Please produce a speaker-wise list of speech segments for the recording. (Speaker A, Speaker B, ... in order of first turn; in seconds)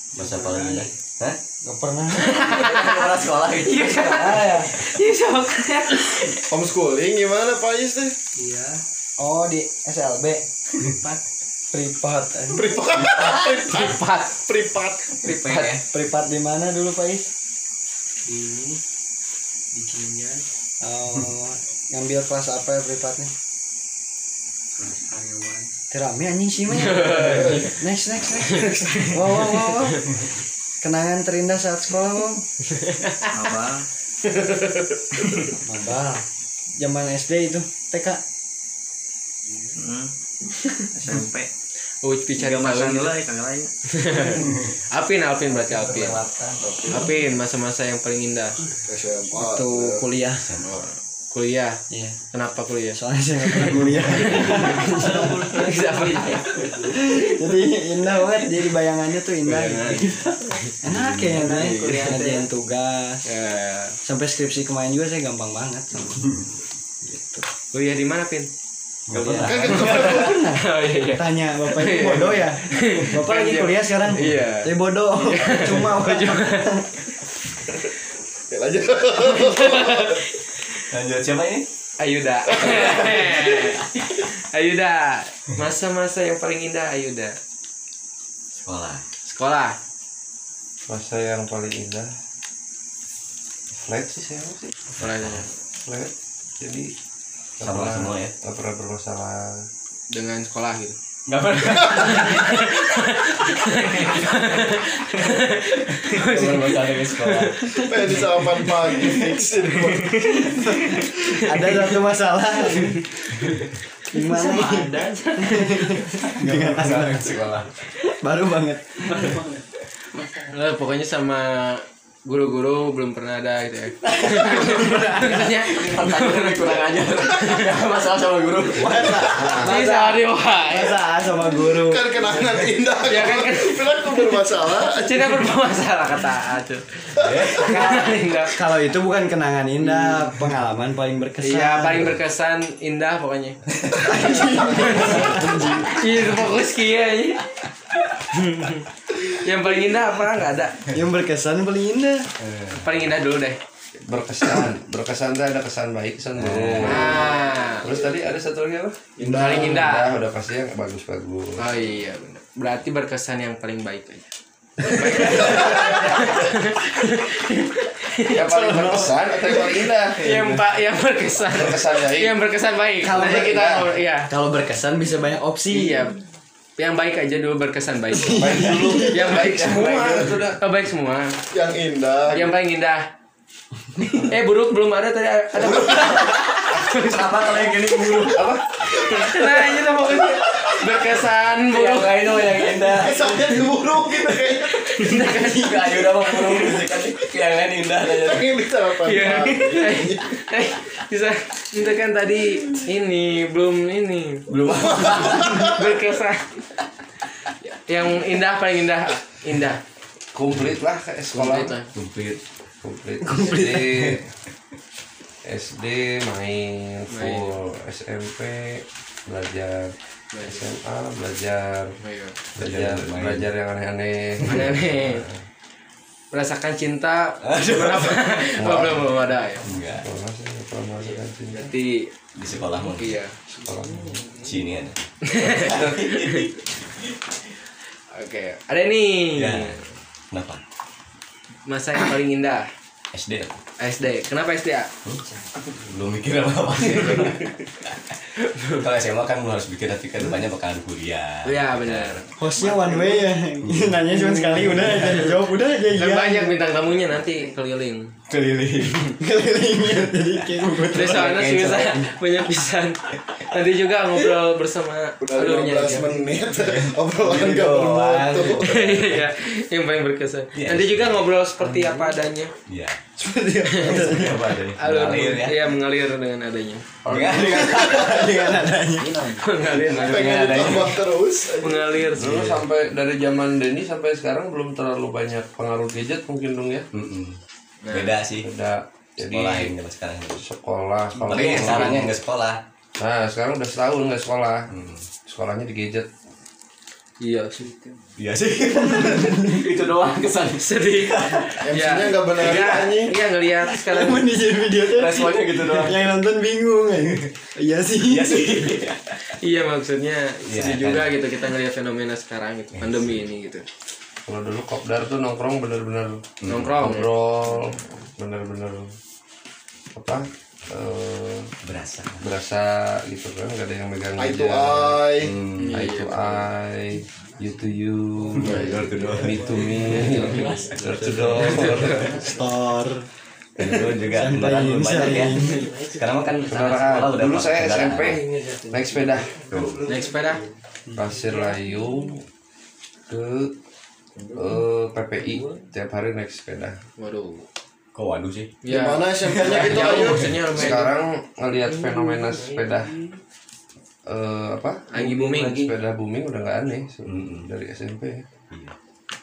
Speaker A: 0.2-0.9, 8.4-8.8, 10.9-11.2, 15.3-15.8, 18.3-18.8, 19.7-20.4, 24.8-25.7, 27.4-27.7, 33.3-33.8, 39.7-40.1, 41.1-41.4, 42.6-43.6, 45.9-46.9, 54.3-57.2, 61.2-62.5, 114.2-116.9, 119.0-119.6, 120.1-120.5, 279.0-279.4
Speaker B: 0.2-1.4, 2.5-4.3, 50.4-50.9, 60.9-61.6, 69.1-70.2, 80.9-81.7, 88.6-89.0, 95.0-95.5, 97.6-98.3, 101.3-104.8, 105.9-107.7, 116.4-117.7, 124.4-129.6, 137.2-138.1, 152.4-152.8, 156.4-157.2, 186.9-188.5, 191.7-193.6, 195.0-198.6, 211.9-212.4, 213.3-214.2, 222.6-223.5, 227.4-228.3, 229.6-230.1, 232.4-233.2, 234.4-237.2, 239.4-240.6, 243.1-243.6, 245.9-248.2, 248.8-253.0, 253.6-255.3, 258.3-258.9, 261.0-261.5, 266.6-269.3, 270.6-271.3, 272.7-273.0, 273.9-275.6, 277.1-278.8, 279.9-281.0, 286.9-287.4, 287.9-288.5, 289.2-290.4, 291.2-292.6, 294.7-295.1, 298.2-301.6, 304.9-306.1, 308.0-309.2, 310.5-311.2, 312.8-313.3, 316.4-316.7, 321.6-322.2, 325.2-325.9, 328.4-332.4, 333.6-338.2, 339.5-339.9, 347.9-348.5, 349.3-350.4, 357.1-357.5
Speaker C: 1.6-2.9, 3.7-4.8, 9.2-10.4, 11.7-12.6, 15.9-17.3, 20.8-23.3, 25.9-30.1, 30.8-32.4, 35.6-36.2, 36.8-38.2, 41.0-41.3, 42.5-42.8, 43.4-43.6, 46.0-47.1, 49.3-50.6, 51.9-52.2, 52.9-55.3, 57.0-63.3, 64.0-66.4, 67.1-67.4, 69.1-76.9, 109.9-110.4, 111.3-113.0, 114.1-117.4, 118.2-119.3, 128.7-132.6, 138.4-142.1, 144.1-146.1, 150.9-152.3, 170.2-170.6, 173.0-176.1, 178.3-179.1, 187.2-188.4, 252.4-256.6, 258.7-262.1, 278.0-279.2, 303.8-308.6, 332.2-333.1, 333.6-335.7
Speaker D: 2.2-3.0, 3.6-6.4, 13.7-14.4, 15.2-15.8, 26.9-27.6, 32.8-33.1, 42.0-43.1, 44.0-46.2, 46.9-48.6, 51.3-51.8, 52.3-56.6, 59.5-60.2, 61.5-62.2, 63.2-64.0, 67.7-68.5, 69.7-76.7, 79.2-80.7, 82.0-87.4, 89.3-89.8, 94.9-95.5, 100.1-101.0, 102.0-107.9, 112.7-113.0, 120.5-126.8, 127.4-127.7, 129.6-131.0, 133.1-138.6, 141.4-143.6, 144.6-147.5, 148.3-150.8, 152.8-153.6, 156.8-157.9, 159.2-160.1, 161.6-168.4, 170.2-174.3, 175.7-176.2, 176.8-181.4, 182.3-183.1, 184.2-187.7, 188.8-192.9, 195.0-195.8, 199.0-206.7, 207.7-209.8, 211.3-211.9, 217.1-217.6, 220.3-220.7, 222.0-222.4, 224.5-225.2, 226.3-229.6, 231.0-232.1, 232.8-233.4, 235.3-236.4, 238.1-239.8, 241.7-242.7, 243.8-244.9, 247.0-247.3, 248.4-248.8, 251.4-253.2, 255.9-258.1, 260.9-266.1, 268.6-272.5, 274.8-276.9, 279.4-281.0, 281.6-282.6, 287.8-288.1, 291.3-292.0, 297.2-297.9, 300.6-304.3, 309.3-313.7, 316.5-317.1, 325.6-326.4, 328.4-328.8, 331.4-332.1, 339.9-340.4, 347.0-347.4, 348.6-350.9, 354.9-355.7
Speaker E: 6.5-8.2, 12.5-15.3, 48.9-50.0, 69.3-70.5, 78.5-80.2, 82.7-83.2, 107.8-111.0, 129.1-129.8, 131.7-135.5, 137.2-137.7, 144.0-145.9, 159.2-159.9, 165.1-166.0, 168.3-169.9, 178.4-180.0, 181.5-182.5, 185.6-186.6, 188.9-189.3, 192.9-195.5, 198.1-200.4, 205.0-205.7, 265.2-268.7, 273.2-274.4, 277.6-278.3, 279.7-282.1, 301.6-303.1, 324.2-325.3, 348.6-350.5
Speaker F: 90.9-92.1, 93.7-94.8, 95.8-96.9, 97.6-99.7, 154.0-161.8, 168.3-170.2, 171.5-172.3, 178.4-180.6, 204.5-205.5, 210.3-211.8, 212.8-214.2, 215.4-221.9, 222.6-225.4, 228.6-229.1, 229.7-231.7, 233.6-234.2, 277.1-277.9, 282.2-286.9, 288.4-289.7, 290.4-292.1, 293.0-294.7, 295.3-296.1, 314.3-318.9, 319.9-321.5, 322.2-325.1, 325.7-332.1, 336.5-339.3, 340.9-342.2, 343.1-343.5, 344.4-346.8, 350.5-352.9, 354.1-358.3